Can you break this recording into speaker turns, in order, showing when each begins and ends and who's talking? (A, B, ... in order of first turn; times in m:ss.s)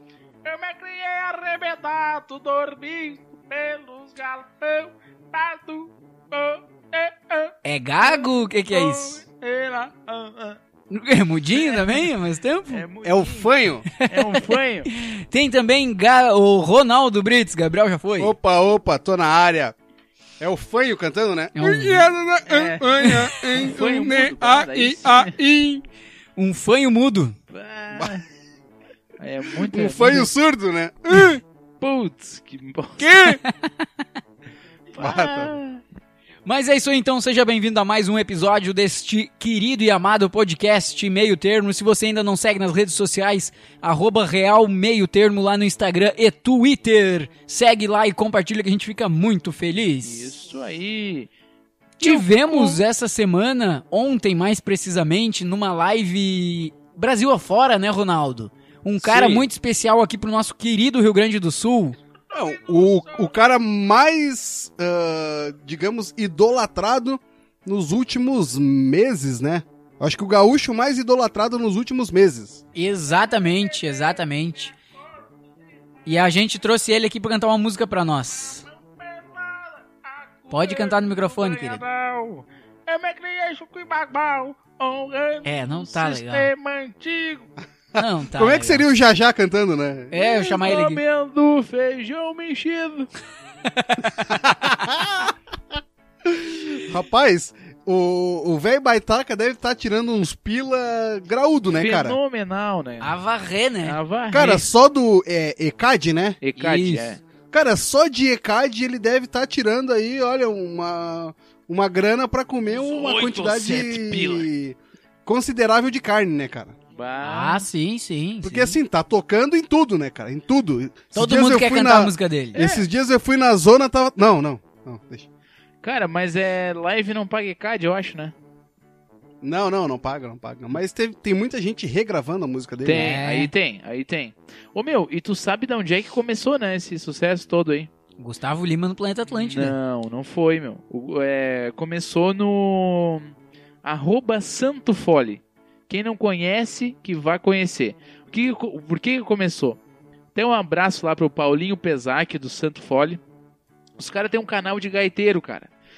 0:00.4-0:10.6 A
0:07.6-0:09.2 B
0:10.9-0:12.9 B
0:11.5-0:12.1 A
0:12.7-0:14.9 A
0:13.0-0:13.9 C
0:14.0-0:18.3 B
0:18.2-0:19.8 C
0:20.4-0:25.8 C
0:21.6-0:22.1 B
0:22.5-0:22.8 A
0:23.0-0:23.7 B
0:23.6-0:25.4 A
0:26.4-0:27.4 B
0:27.5-0:28.2 A
0:29.2-0:30.3 A
0:29.6-0:31.4 C
0:31.8-0:33.2 A
0:33.0-0:33.4 C
0:33.0-0:33.9 B
0:34.9-0:35.8 A
0:35.0-0:35.5 C
0:36.4-0:50.3 B
0:50.0-0:51.3 A
0:52.0-0:52.8 A
0:52.0-1:02.0 B
0:59.0-0:59.5 C
1:02.3-1:03.3 A
1:02.3-1:12.6 C
1:12.8-1:14.7 B
1:13.4-1:14.2 A
1:16.1-1:18.6 B
1:18.6-1:27.5 A
1:20.5-1:21.8 B
1:25.4-1:26.5 B
1:28.0-1:28.8 B
1:28.3-1:30.6 C
1:30.1-1:31.0 B
1:30.4-1:33.1 A
1:33.8-1:34.3 B
1:34.2-1:35.3 C
1:36.2-1:42.2 C
1:41.7-1:43.1 A
1:43.0-1:44.0 B
1:43.8-1:44.7 A
1:44.3-1:46.4 C
1:46.4-1:47.2 A
1:46.6-1:47.1 B
1:47.5-1:56.8 C
1:52.7-1:54.5 A
1:57.0-1:57.7 A
1:57.2-1:58.8 B
1:58.4-2:05.3 C
2:01.2-2:02.6 B
2:02.6-2:02.8 A
2:05.8-2:08.3 A
2:09.4-2:13.2 C
2:12.8-2:17.9 A
2:12.9-2:13.5 B
2:18.2-2:19.8 B
2:19.3-2:23.3 A
2:23.8-2:29.8 A
2:30.4-2:33.2 A
2:34.0-2:35.7 A